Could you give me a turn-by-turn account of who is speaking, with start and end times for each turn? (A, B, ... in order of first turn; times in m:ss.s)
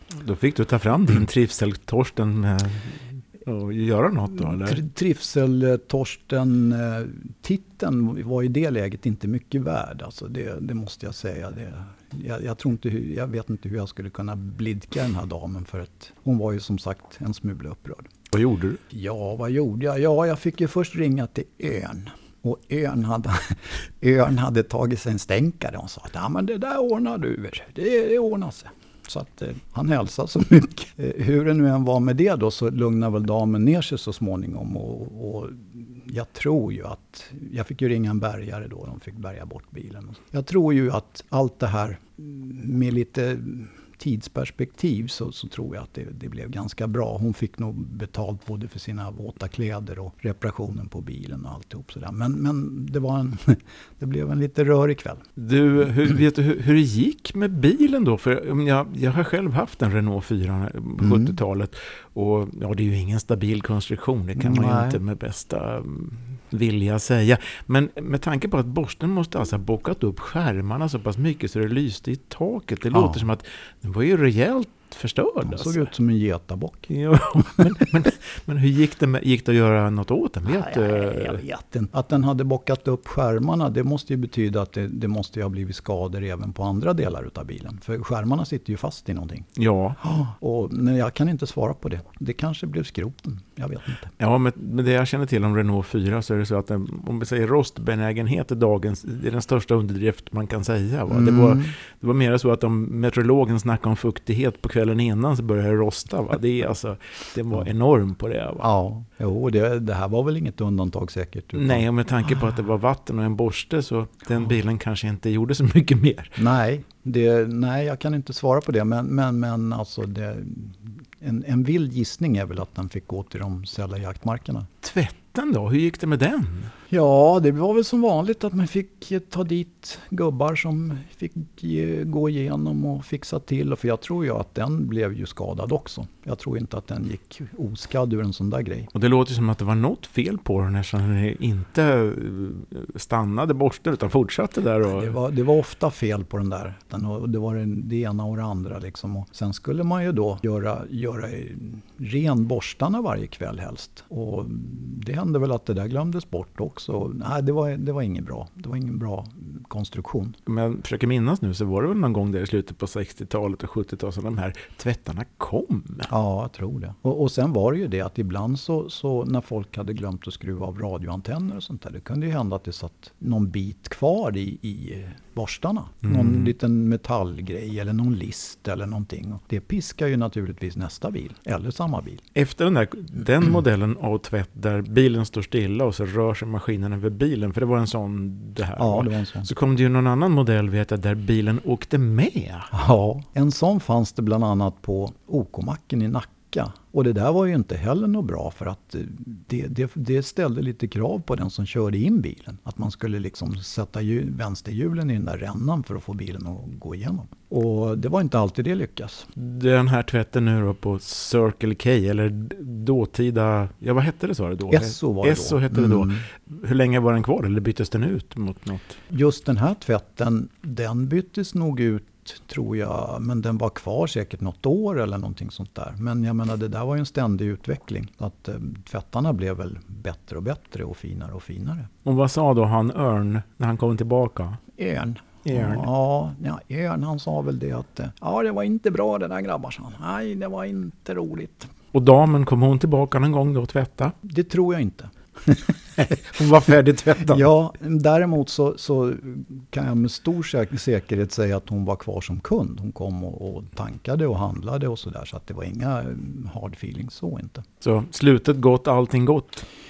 0:00.1-0:04.8 A
0:04.4-0:18.1 B
0:18.3-0:18.8 A
0:18.9-0:55.2 B
0:55.4-1:15.8 A
1:01.0-1:01.4 B
1:04.4-1:05.0 B
1:12.9-1:13.3 B
1:15.4-1:16.9 B
1:16.9-1:21.4 A
1:20.5-1:29.5 B
1:29.6-1:30.0 A
1:30.0-1:34.1 B
1:34.2-1:48.7 A
1:41.1-1:41.8 B
1:48.6-1:51.9 B
1:51.6-1:56.4 A
1:56.4-2:04.7 B
2:04.8-2:06.7 A
2:06.9-2:18.9 B
2:18.9-2:25.2 A
2:24.8-2:40.4 B
2:40.5-2:46.1 A
2:46.1-3:02.2 B
2:56.1-2:56.5 A
3:02.4-3:12.7 A
3:08.8-3:09.5 B
3:12.7-3:29.3 B
3:29.4-3:39.0 A
3:34.7-3:36.2 B
3:39.1-3:51.9 B
3:52.0-3:54.6 A
3:54.8-4:01.7 B
3:55.4-3:55.9 A
4:01.9-4:04.1 A
4:04.2-4:06.1 B
4:06.0-4:07.4 A
4:07.2-4:17.6 B
4:17.8-4:19.6 A